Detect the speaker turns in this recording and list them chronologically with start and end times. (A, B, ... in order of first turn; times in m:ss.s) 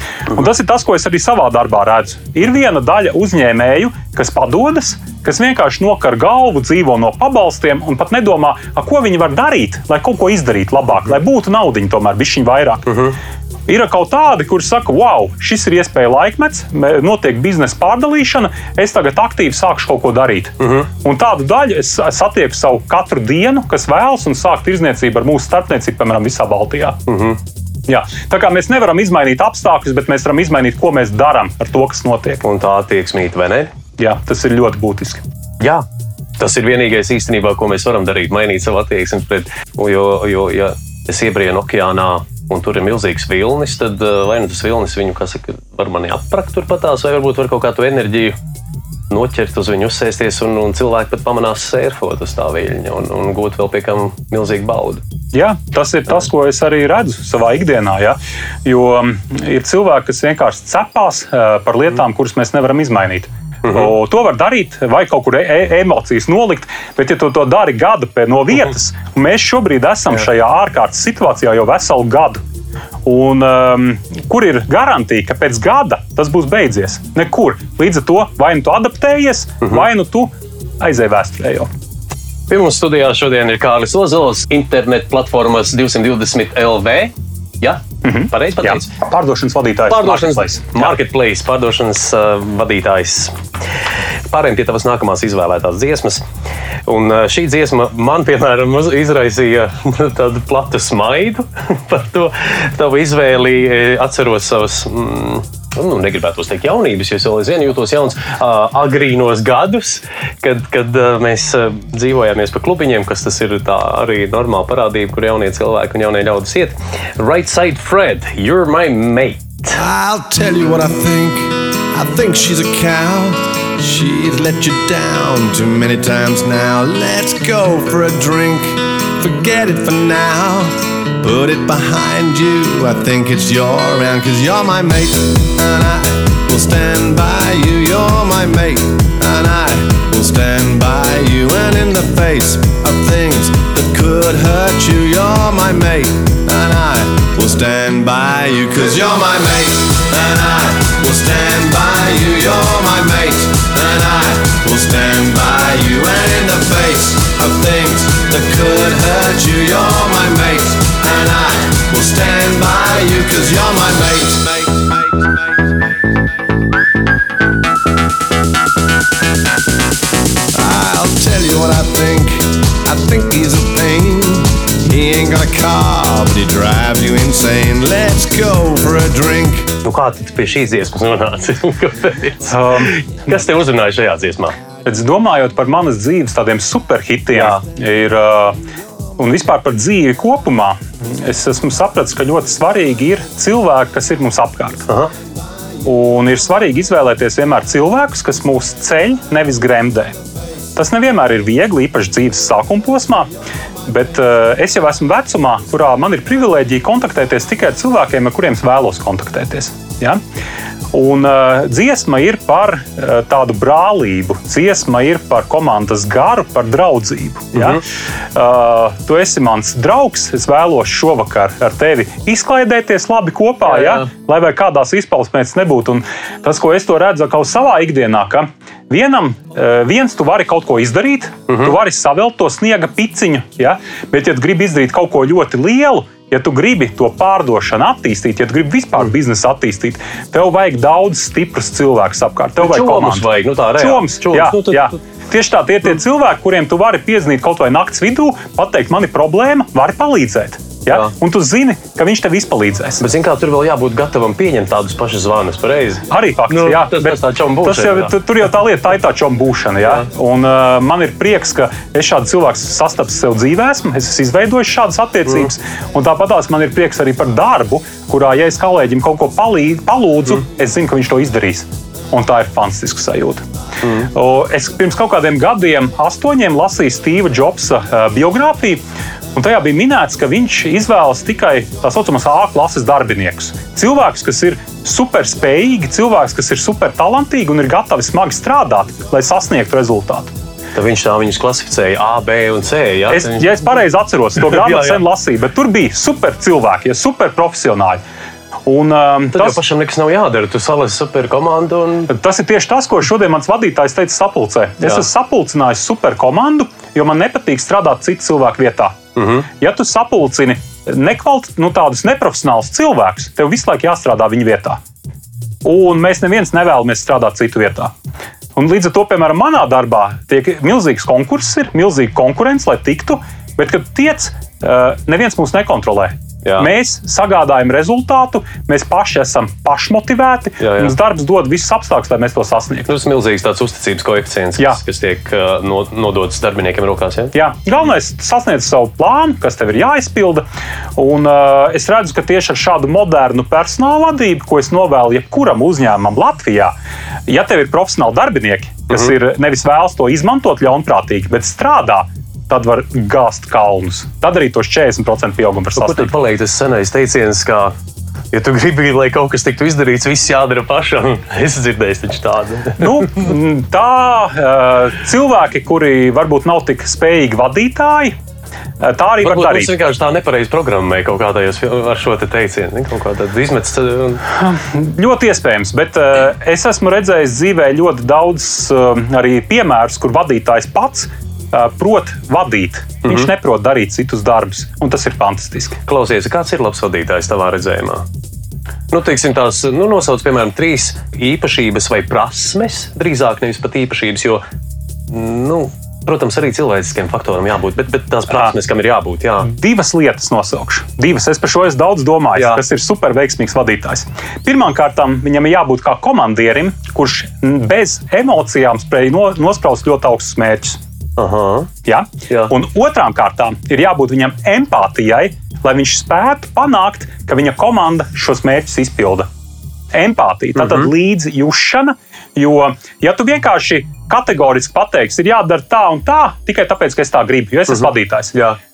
0:00.3-0:13.0 A
0:12.9-0:13.2 B
0:13.7-0:27.0 A
0:20.6-0:20.9 B
0:27.1-0:27.4 B
0:27.9-0:32.4 A
0:32.4-0:33.7 B
0:34.0-0:35.2 A
0:35.6-0:35.9 B
0:36.4-0:48.4 B
0:49.1-0:55.0 B
0:55.3-1:12.4 A
1:13.0-1:21.7 A
1:22.5-1:28.9 B
1:28.0-1:30.9 A
1:29.9-1:33.4 B
1:34.3-1:36.2 B
1:36.9-1:59.8 B
1:59.7-2:45.9 C
2:50.5-2:59.8 C
2:59.8-3:04.6 B
3:02.5-3:02.9 A
3:04.8-3:08.6 A
3:07.3-3:07.6 B
3:09.2-3:14.9 A
3:15.8-3:20.2 A
3:20.8-3:23.3 A
3:23.9-3:30.2 A
3:30.9-3:37.8 A
3:37.6-3:37.8 B
3:38.4-4:13.0 A
3:43.7-3:44.1 B
3:51.5-3:51.7 B
4:02.6-4:05.0 B
4:13.0-4:18.1 B
4:16.1-4:33.4 A
4:33.8-4:34.1 B
4:34.1-4:38.8 A
4:39.4-4:50.3 A
4:50.8-4:53.6 B
4:53.1-4:58.0 A
4:54.4-4:55.0 B
4:58.7-4:59.6 A
4:59.3-5:02.1 B
5:02.1-5:09.0 A
5:09.2-5:09.5 B
5:09.6-5:14.8 A
5:15.6-5:17.9 A
5:18.6-5:32.9 A
5:26.4-5:26.7 B
5:30.6-5:31.0 B
5:32.9-5:37.4 B
5:37.3-5:40.4 A
5:41.0-5:46.7 A
5:47.3-5:56.1 A
5:55.8-5:57.7 B
5:58.3-6:03.0 B
6:02.8-6:08.2 A
6:08.8-6:09.7 A
6:09.2-6:14.2 B
6:14.4-6:25.8 A
6:25.9-6:28.0 B
6:28.9-6:34.4 B
6:35.1-6:39.5 B
6:39.4-6:50.8 A
6:42.4-6:42.6 B
6:51.2-6:51.7 B
6:51.9-6:59.3 A
6:52.3-6:52.5 B
6:59.9-7:08.4 A
7:00.6-7:00.9 B